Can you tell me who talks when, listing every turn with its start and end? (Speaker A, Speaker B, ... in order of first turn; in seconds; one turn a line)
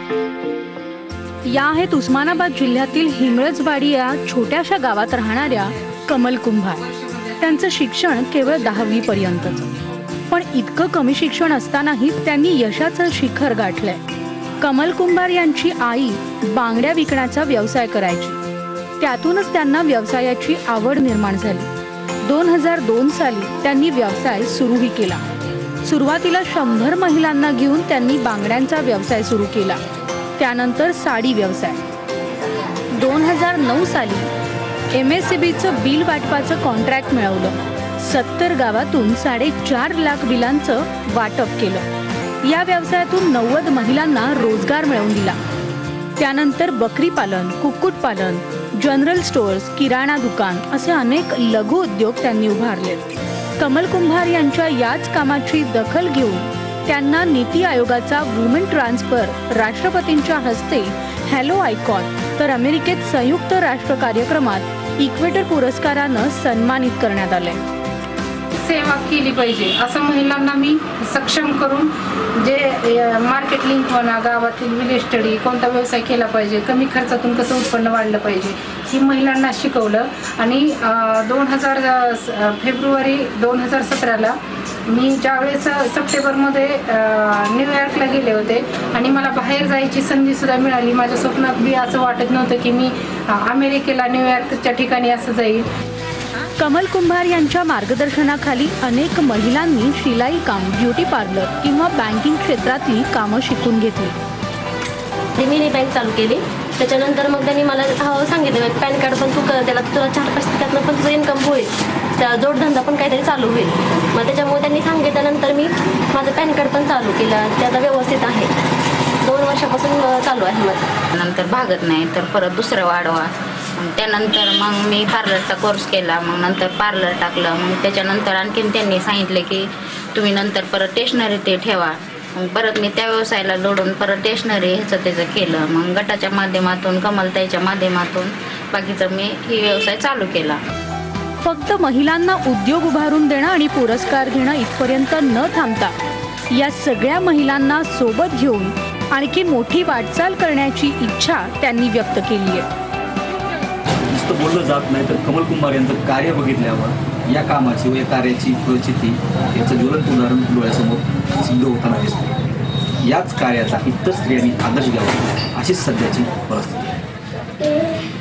Speaker A: 1.5-6.8
Speaker A: 7.4-9.7
Speaker A: 10.3-14.0
Speaker A: 14.6-18.4
Speaker A: 19.0-21.7
Speaker A: 22.2-25.2
Speaker A: 25.8-29.8
Speaker A: 30.4-31.8
Speaker A: 32.9-34.3
Speaker A: 34.9-41.9
Speaker A: 42.4-45.4
Speaker A: 46.2-53.1
Speaker A: 53.6-67.6
Speaker B: 68.6-84.4
Speaker B: 84.9-95.7
Speaker A: 96.6-104.2
Speaker C: 105.4-118.5
Speaker C: 119.2-120.9
Speaker D: 121.1-140.6
Speaker A: 141.4-145.9
Speaker A: 146.5-152.7
Speaker E: 154.1-162.3
Speaker E: 163.0-166.9